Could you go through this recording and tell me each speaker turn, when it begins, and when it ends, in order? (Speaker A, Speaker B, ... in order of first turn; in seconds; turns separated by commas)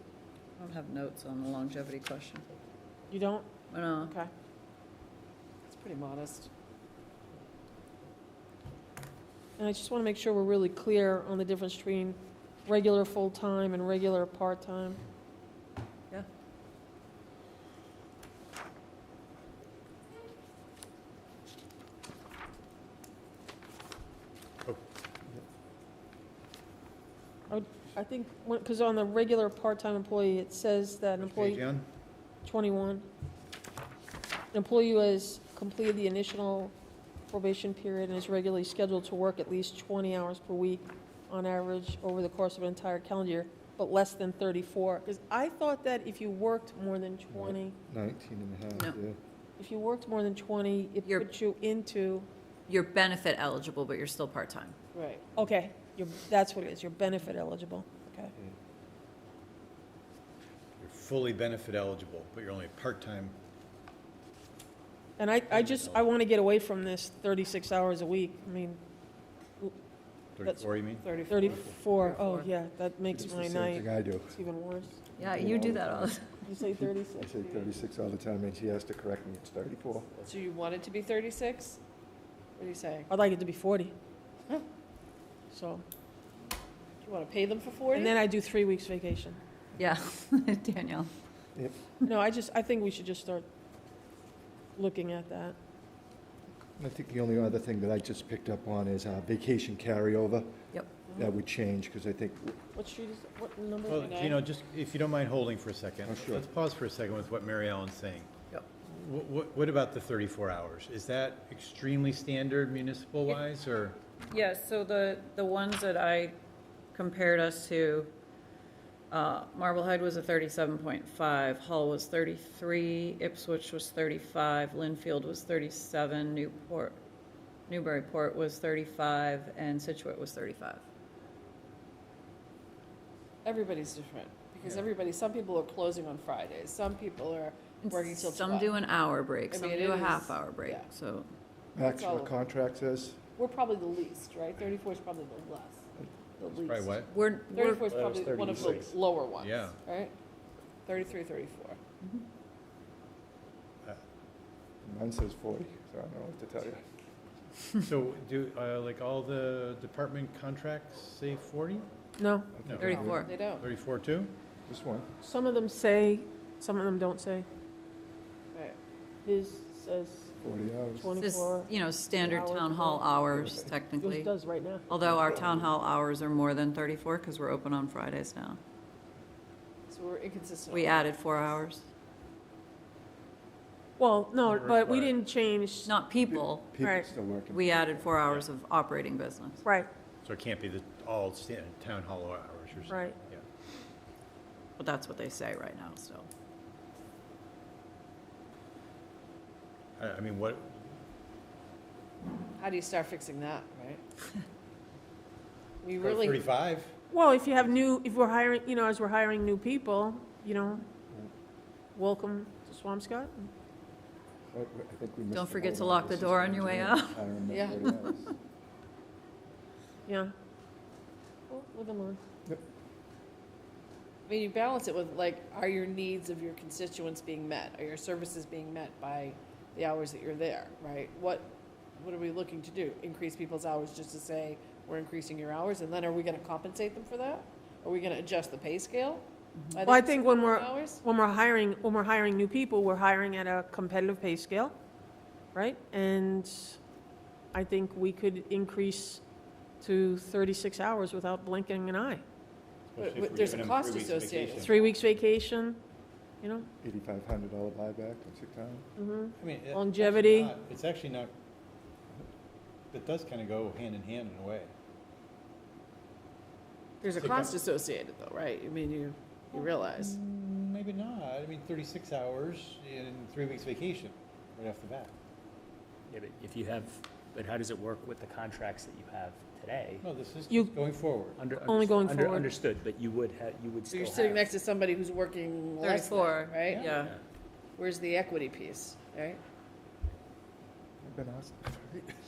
Speaker A: 0.6-2.5, Speaker B: 3.1-3.5, Speaker A: 3.7-4.1, Speaker B: 4.0-4.3, Speaker C: 5.7-6.5, Speaker B: 9.6-15.0, Speaker B: 27.5-31.6, Speaker D: 31.2-31.9, Speaker B: 32.4-33.1, Speaker B: 34.5-36.7, Speaker B: 37.3-47.8, Speaker E: 47.3-49.2, Speaker B: 49.6-52.3, Speaker A: 52.7-54.8, Speaker C: 54.9-55.2, Speaker B: 55.4-58.3, Speaker D: 60.8-63.3, Speaker B: 65.2-68.8, Speaker D: 65.5-66.1, Speaker D: 70.4-71.1, Speaker C: 71.0-71.6, Speaker B: 71.3-75.0, Speaker A: 72.0-72.5, Speaker E: 73.1-74.4, Speaker E: 75.1-76.2, Speaker A: 75.2-76.4, Speaker B: 76.4-77.5, Speaker E: 76.7-80.1, Speaker C: 80.3-81.8, Speaker C: 82.6-83.1, Speaker B: 83.1-83.9, Speaker B: 85.5-85.8, Speaker C: 87.0-88.2, Speaker B: 87.9-89.4, Speaker A: 89.8-91.1, Speaker B: 92.0-93.5, Speaker B: 94.8-95.5, Speaker E: 96.8-100.5, Speaker E: 101.1-102.6, Speaker B: 102.7-104.3, Speaker D: 103.9-108.3, Speaker C: 103.9-104.4, Speaker E: 106.0-106.4, Speaker D: 108.8-114.0, Speaker A: 114.3-116.3, Speaker A: 116.9-118.1, Speaker A: 119.1-127.0, Speaker A: 127.7-130.8, Speaker C: 133.4-138.7, Speaker A: 137.8-141.3, Speaker C: 139.5-140.9, Speaker E: 141.7-143.2, Speaker C: 141.8-142.3, Speaker C: 143.4-145.8, Speaker C: 146.4-146.9, Speaker D: 146.5-147.1, Speaker A: 147.1-147.9, Speaker C: 147.5-150.1, Speaker F: 147.8-149.0, Speaker D: 149.4-149.8, Speaker C: 150.8-151.8, Speaker E: 154.8-156.8, Speaker D: 157.8-161.9, Speaker B: 162.2-162.5, Speaker E: 162.6-163.3, Speaker D: 162.6-164.3, Speaker A: 162.8-163.3, Speaker C: 162.8-163.6, Speaker E: 164.7-165.1, Speaker B: 165.2-167.5, Speaker B: 169.2-170.3, Speaker E: 170.4-171.2, Speaker B: 170.9-173.0, Speaker A: 171.2-174.3, Speaker E: 173.3-173.7, Speaker B: 174.0-174.9, Speaker A: 174.9-178.6, Speaker E: 175.0-175.7, Speaker C: 179.9-181.1, Speaker A: 180.7-181.8, Speaker B: 184.0-185.9, Speaker D: 184.6-185.1, Speaker A: 185.8-186.7, Speaker E: 186.2-188.1, Speaker B: 186.8-187.1, Speaker A: 187.5-189.6, Speaker D: 190.2-193.4, Speaker B: 192.9-193.2, Speaker A: 194.8-196.3, Speaker D: 200.0-200.8, Speaker C: 202.6-204.0, Speaker C: 205.8-206.4, Speaker D: 206.0-206.9, Speaker B: 207.1-210.8, Speaker B: 211.9-213.5, Speaker E: 214.5-218.3, Speaker A: 215.3-218.3, Speaker C: 217.5-217.8, Speaker B: 220.1-220.3, Speaker B: 221.5-222.2, Speaker C: 224.3-241.0, Speaker B: 239.8-244.7, Speaker B: 245.5-246.8, Speaker B: 247.5-249.2, Speaker B: 249.8-252.2, Speaker D: 252.9-254.7, Speaker C: 253.0-254.7, Speaker B: 254.6-255.8, Speaker B: 256.4-256.7, Speaker E: 256.8-258.9, Speaker B: 259.0-260.6, Speaker D: 259.4-261.3, Speaker D: 262.9-264.7, Speaker C: 267.0-270.2, Speaker D: 267.0-267.5, Speaker D: 269.5-275.1, Speaker F: 276.1-280.0, Speaker D: 280.0-281.4, Speaker B: 280.5-280.8, Speaker F: 281.4-284.5, Speaker B: 281.6-282.5, Speaker C: 283.9-286.9, Speaker A: 285.8-287.1, Speaker D: 286.7-286.9, Speaker F: 286.9-287.2, Speaker C: 287.8-289.4, Speaker E: 291.0-292.1